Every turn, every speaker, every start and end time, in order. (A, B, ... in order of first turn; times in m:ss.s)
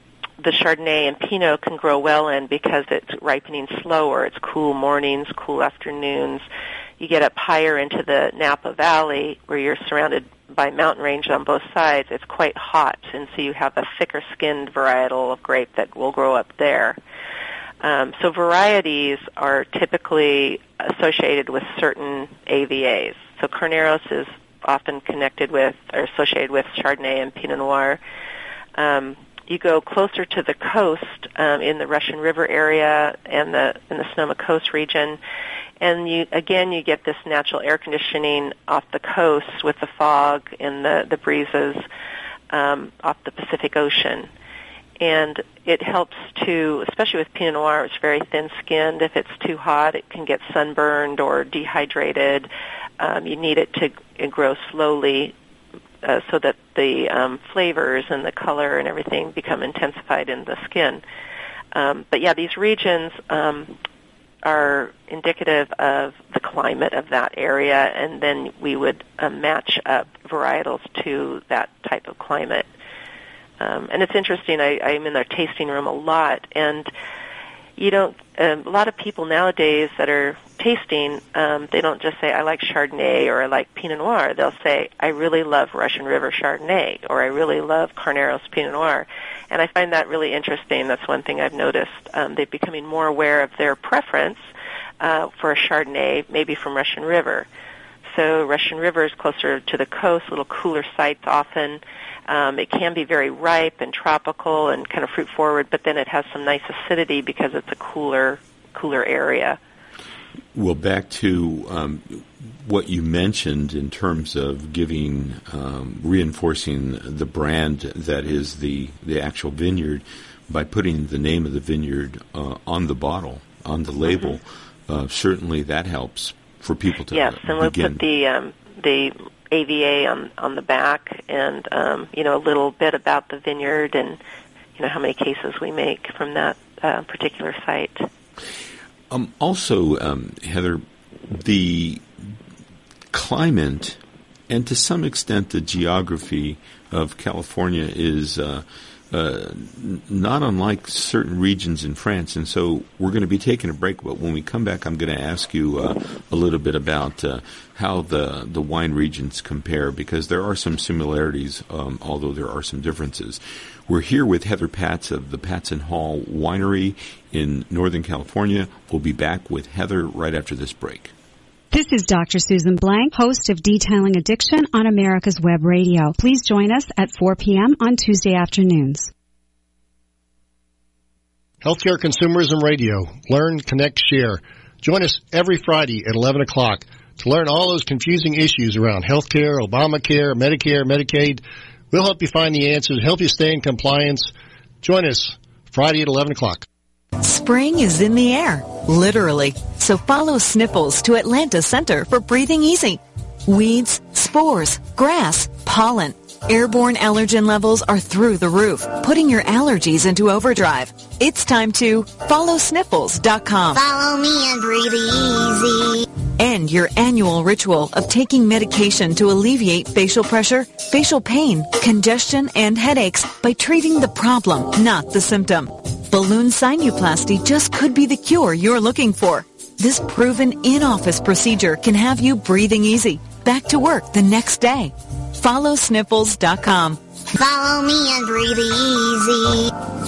0:00.4-0:06.4 A
0:07.0-0:17.0 A
0:17.8-0:28.0 A
0:28.7-0:35.2 A
0:35.8-0:41.9 A
0:42.5-0:44.3 A
0:45.0-0:55.3 A
0:56.0-1:01.0 A
1:01.7-1:03.8 A
1:04.4-1:12.7 A
1:13.6-1:16.9 A
1:17.8-1:34.5 A
1:35.0-1:37.5 A
1:38.1-1:49.6 A
1:50.6-2:08.0 B
2:07.1-2:14.2 A
2:14.8-2:18.1 A
2:19.1-2:22.0 B
2:23.1-2:24.0 B
2:24.5-2:51.1 B
2:51.7-2:59.1 C
3:01.6-3:16.6 D
3:17.2-3:33.8 E
3:33.7-3:36.1 F
3:36.4-3:57.0 E
3:57.4-3:59.7 F